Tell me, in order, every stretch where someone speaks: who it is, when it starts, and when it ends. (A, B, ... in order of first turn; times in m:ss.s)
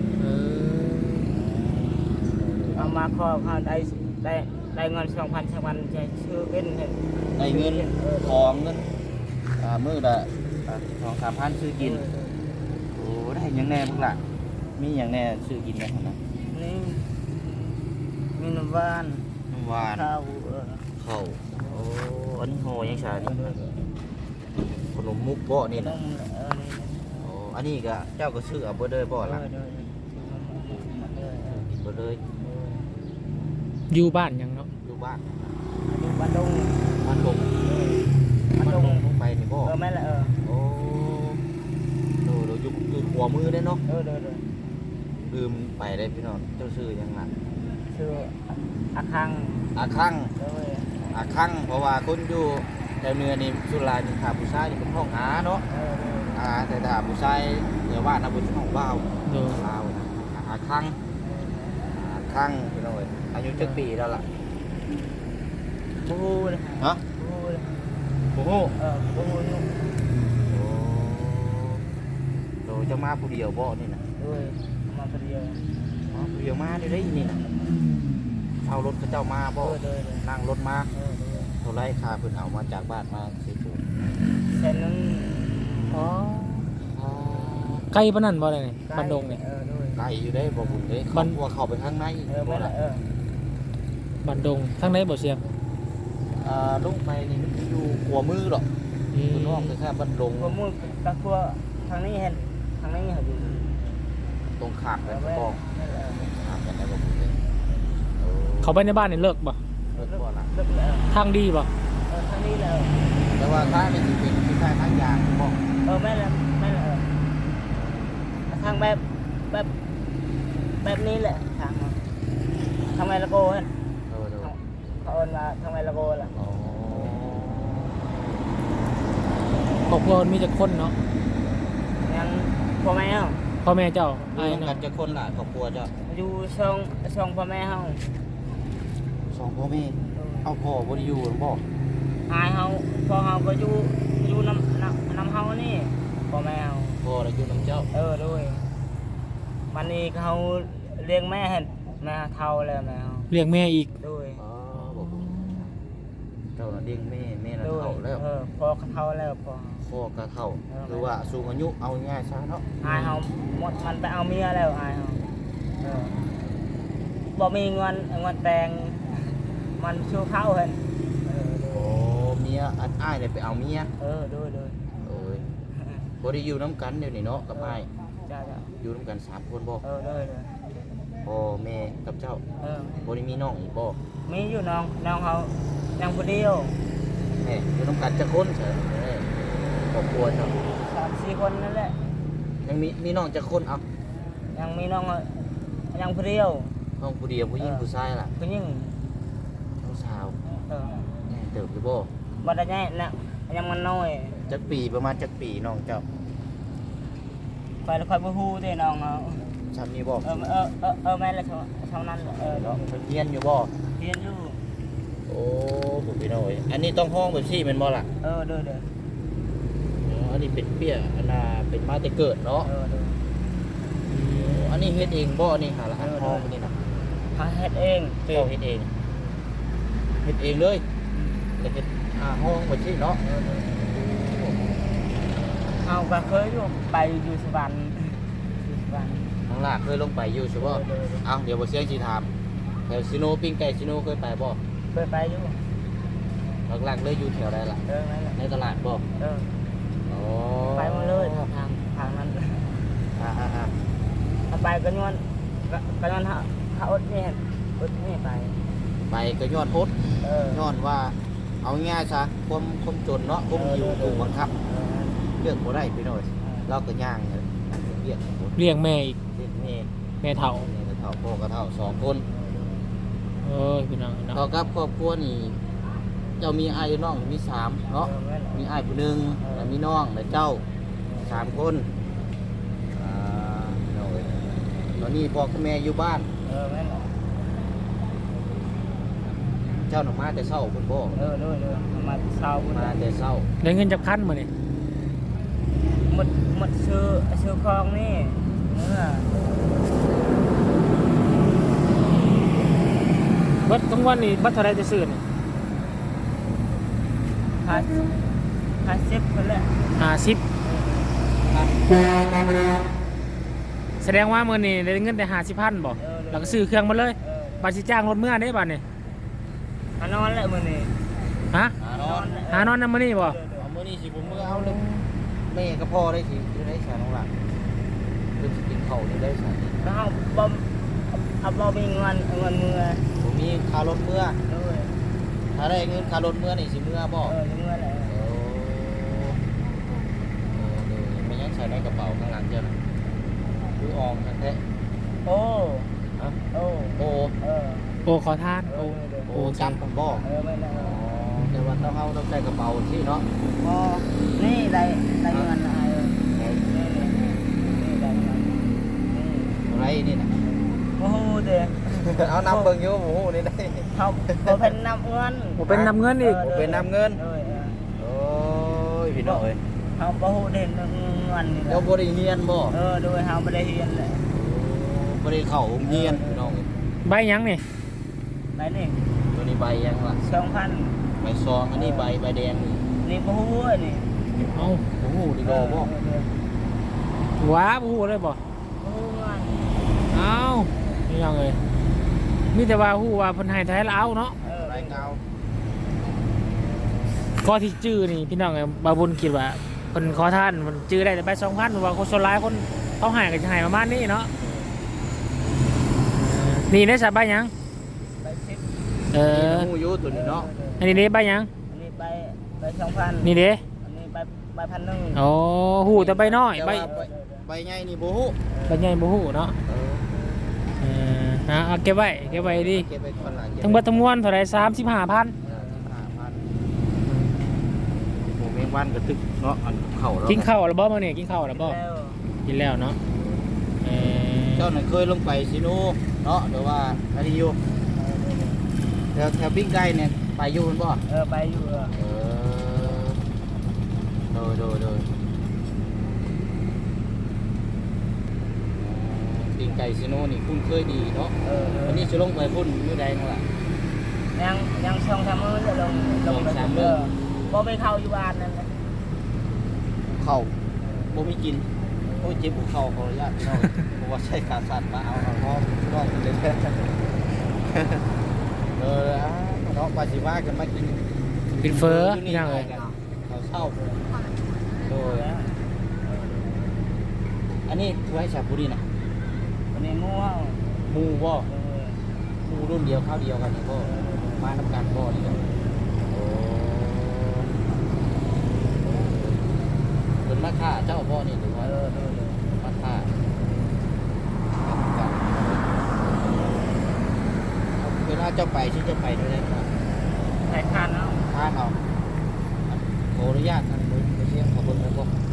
0:00.2-0:01.3 A
0:01.2-0:02.9 B
0:02.7-0:08.6 C
0:07.3-0:08.9 B
0:09.6-0:12.0 B
0:11.8-0:12.4 C
0:12.9-0:14.2 B
0:14.8-0:16.2 B
0:16.5-0:19.3 C
0:19.5-0:20.1 B
0:19.9-0:20.8 C
0:21.0-0:23.6 B
0:22.9-0:23.7 C
0:24.9-0:26.0 B
0:25.7-0:27.3 C
0:27.2-0:29.4 B
0:29.2-0:31.6 C
0:31.5-0:32.2 B
0:32.4-0:32.8 C
0:33.9-0:34.7 A
0:34.8-0:35.5 B
0:35.8-0:36.9 C
0:37.0-0:37.5 B
0:37.6-0:39.0 C
0:38.8-0:39.7 B
0:39.6-0:40.4 C
0:40.4-0:41.4 B
0:42.2-0:43.8 B
0:43.9-0:44.4 C
0:45.2-0:47.3 B
0:47.9-0:49.7 C
0:49.7-0:50.3 B
0:50.4-0:51.0 C
0:51.1-0:55.6 B
0:55.7-0:56.4 C
0:56.3-1:01.0 B
0:59.2-0:59.6 A
1:01.2-1:01.8 C
1:01.9-1:04.3 B
1:06.0-1:07.7 C
1:08.3-1:08.8 B
1:08.8-1:09.7 C
1:10.5-1:11.8 B
1:12.6-1:14.0 B
1:14.2-1:15.6 C
1:16.1-1:17.5 B
1:18.6-1:20.9 B
1:19.6-1:20.3 C
1:20.9-1:21.6 C
1:21.6-1:23.8 B
1:24.5-1:25.9 C
1:25.9-1:26.7 A
1:26.8-1:27.9 B
1:27.9-1:29.4 A
1:28.9-1:30.0 C
1:30.0-1:32.7 B
1:32.3-1:33.0 C
1:34.2-1:35.4 A
1:36.4-1:38.7 B
1:39.1-1:39.7 A
1:39.3-1:40.6 B
1:40.4-1:43.7 C
1:44.6-1:45.6 B
1:45.0-1:46.3 C
1:46.3-1:47.4 B
1:48.2-1:48.8 B
1:48.6-1:49.6 A
1:49.9-1:50.5 B
1:50.0-1:51.1 C
1:51.1-1:51.7 A
1:52.1-1:53.0 C
1:53.4-1:55.6 B
1:55.8-1:57.1 C
1:57.7-1:58.2 B
1:58.5-1:59.7 C
2:00.8-2:02.0 C
2:02.9-2:03.7 C
2:04.1-2:04.5 B
2:04.4-2:06.3 C
2:06.3-2:07.9 B
2:09.9-2:11.0 A
2:12.0-2:13.4 C
2:13.6-2:14.8 A
2:14.3-2:15.9 B
2:16.0-2:18.1 C
2:19.3-2:21.6 B
2:20.1-2:20.5 C
2:22.3-2:27.0 C
2:27.0-2:27.9 B
2:27.9-2:28.7 C
2:29.7-2:33.3 C
2:33.3-2:33.9 A
2:34.0-2:34.4 C
2:34.4-2:35.3 B
2:34.9-2:35.7 A
2:36.6-2:38.2 B
2:37.6-2:39.9 C
2:39.8-2:42.7 B
2:40.7-2:41.2 C
2:42.8-2:45.2 C
2:42.8-2:43.2 A
2:45.8-2:46.2 C
2:47.3-2:52.1 C
2:51.7-2:53.9 B
2:54.0-2:54.8 C
2:55.0-2:55.4 B
2:55.7-2:56.1 C
2:56.2-2:57.9 B
2:57.6-2:58.7 C
2:58.8-2:59.8 B
2:59.8-3:00.5 C
3:01.2-3:02.4 B
3:02.6-3:03.1 C
3:03.0-3:04.0 B
3:04.2-3:06.8 C
3:07.4-3:10.6 B
3:10.6-3:12.0 C
3:12.6-3:13.8 B
3:14.5-3:16.8 C
3:17.0-3:18.3 B
3:17.6-3:19.0 C
3:19.8-3:20.4 B
3:20.5-3:21.1 C
3:21.3-3:22.1 B
3:22.4-3:24.4 C
3:24.5-3:26.0 B
3:27.8-3:29.5 C
3:29.7-3:30.5 B
3:30.2-3:33.0 C
3:32.3-3:33.7 B
3:33.9-3:34.6 C
3:35.3-3:38.1 B
3:38.2-3:38.9 C
3:40.0-3:42.7 B
3:42.6-3:43.2 C
3:44.1-3:44.7 A
3:44.3-3:46.7 B
3:46.0-3:46.5 C
3:47.3-3:48.5 C
3:48.3-3:48.9 B
3:50.2-3:50.8 B
3:51.1-3:51.5 C
3:51.6-3:53.2 B
3:53.2-3:53.8 C
3:53.7-3:54.6 B
3:55.7-3:59.4 C
3:59.4-4:02.3 B
4:00.6-4:01.3 C
4:02.9-4:04.6 B
4:04.9-4:05.6 C
4:06.7-4:07.8 B
4:07.9-4:08.4 C
4:08.4-4:09.0 B
4:09.2-4:09.5 C
4:10.0-4:11.5 B
4:10.6-4:12.8 C
4:13.1-4:13.7 B
4:14.5-4:18.6 C
4:19.0-4:24.5 B
4:20.2-4:20.6 C
4:23.5-4:25.2 C
4:25.4-4:28.6 B
4:26.4-4:26.7 C
4:28.6-4:29.2 A
4:29.3-4:29.9 B
4:30.2-4:30.7 A
4:30.6-4:32.2 B
4:32.3-4:32.8 C
4:33.4-4:34.4 A
4:34.3-4:35.6 B
4:36.4-4:40.6 B
4:38.0-4:38.7 C
4:39.4-4:39.8 C
4:41.2-4:41.9 B
4:42.9-4:44.4 B
4:44.9-4:46.3 B
4:46.4-4:47.1 C
4:49.8-4:51.2 B
4:51.1-4:53.0 C
4:52.7-4:53.5 B
4:53.6-4:54.5 A
4:56.0-4:59.3 C
5:03.6-5:05.2 A
5:07.6-5:08.0 C
5:08.8-5:09.9 C
5:10.0-5:10.4 A
5:10.6-5:11.2 C
5:11.4-5:12.0 B
5:14.0-5:18.8 A
5:16.0-5:17.7 C
5:20.0-5:21.0 C
5:21.5-5:21.8 A
5:21.8-5:22.4 B
5:21.9-5:23.6 C
5:22.5-5:23.4 A
5:23.6-5:24.8 B
5:24.5-5:25.1 A
5:25.5-5:27.3 B
5:28.4-5:29.8 B
5:29.8-5:33.1 C
5:33.2-5:34.4 B
5:34.4-5:35.0 C
5:35.5-5:37.3 B
5:35.8-5:36.1 C
5:37.2-5:38.1 C
5:38.1-5:39.4 B
5:40.5-5:42.8 B
5:43.8-5:44.6 B
5:45.2-5:46.0 C
5:46.5-5:47.9 C
5:47.0-5:47.3 B
5:48.0-5:49.8 A
5:48.6-5:49.3 C
5:49.3-5:53.2 B
5:50.2-5:51.1 C
5:51.4-5:51.6 A
5:53.6-5:59.6 C
5:56.3-5:57.4 B
5:59.6-6:00.4 B
6:00.9-6:02.7 C
6:01.9-6:04.6 B
6:03.9-6:07.8 C
6:05.6-6:06.4 A
6:05.7-6:07.2 B
6:08.0-6:09.6 B
6:09.1-6:09.4 C
6:09.9-6:11.9 C
6:11.7-6:12.7 B
6:12.7-6:14.3 C
6:14.3-6:16.7 B
6:15.8-6:16.7 C
6:17.0-6:17.6 A
6:18.6-6:19.0 C
6:19.3-6:20.2 B
6:20.2-6:21.0 C
6:21.2-6:22.8 B
6:21.7-6:22.1 C
6:23.0-6:24.1 C
6:24.5-6:24.8 A
6:24.9-6:25.9 B
6:25.4-6:26.4 C
6:27.4-6:28.4 A
6:28.8-6:29.7 C
6:30.1-6:31.6 A
6:32.5-6:34.4 A
6:34.4-6:35.2 B
6:34.4-6:35.0 C
6:37.3-6:44.3 A
6:46.1-6:47.5 A
6:48.2-6:48.7 C
6:49.1-6:49.7 A
6:49.1-6:50.5 B
6:50.1-6:51.0 C
6:50.8-6:51.5 A
6:51.7-6:55.2 C
6:53.2-6:53.6 A
6:55.1-6:56.9 A
6:55.9-6:58.4 B
6:56.8-6:57.4 C
6:58.5-6:59.0 C
6:58.7-6:59.6 A
6:59.6-7:00.1 B
7:00.8-7:02.9 A
7:02.2-7:04.1 B
7:03.6-7:05.4 A
7:05.4-7:06.5 B
7:05.4-7:05.9 C
7:07.0-7:07.5 A
7:08.1-7:10.5 B
7:10.3-7:11.8 A
7:11.5-7:12.2 C
7:12.4-7:13.0 A
7:13.8-7:14.7 A
7:14.5-7:17.6 B
7:17.9-7:18.7 C
7:19.1-7:21.0 B
7:21.1-7:22.0 C
7:22.0-7:23.2 B
7:24.3-7:25.1 B
7:28.8-7:31.3 B
7:31.4-7:32.1 C
7:31.8-7:33.4 B
7:34.3-7:38.8 C
7:36.2-7:37.0 B
7:40.1-7:40.5 B
7:41.1-7:41.6 B
7:42.0-7:42.3 C
7:42.2-7:46.9 B
7:47.7-7:48.0 B
7:48.8-7:51.0 B
7:51.6-7:52.7 A
7:51.6-7:53.8 B
7:54.8-7:55.2 B
7:54.9-7:56.7 C
7:57.6-7:58.8 B
7:59.7-8:00.6 C
8:00.9-8:01.5 B
8:01.4-8:02.0 C
8:02.4-8:05.4 B
8:03.8-8:04.4 C
8:05.3-8:05.6 C
8:06.0-8:07.5 B
8:08.8-8:09.4 B
8:10.2-8:11.7 B
8:11.6-8:12.4 C
8:12.6-8:13.1 B
8:14.6-8:15.7 B
8:17.8-8:19.7 B
8:20.4-8:21.3 C
8:21.3-8:21.8 B
8:22.7-8:25.1 B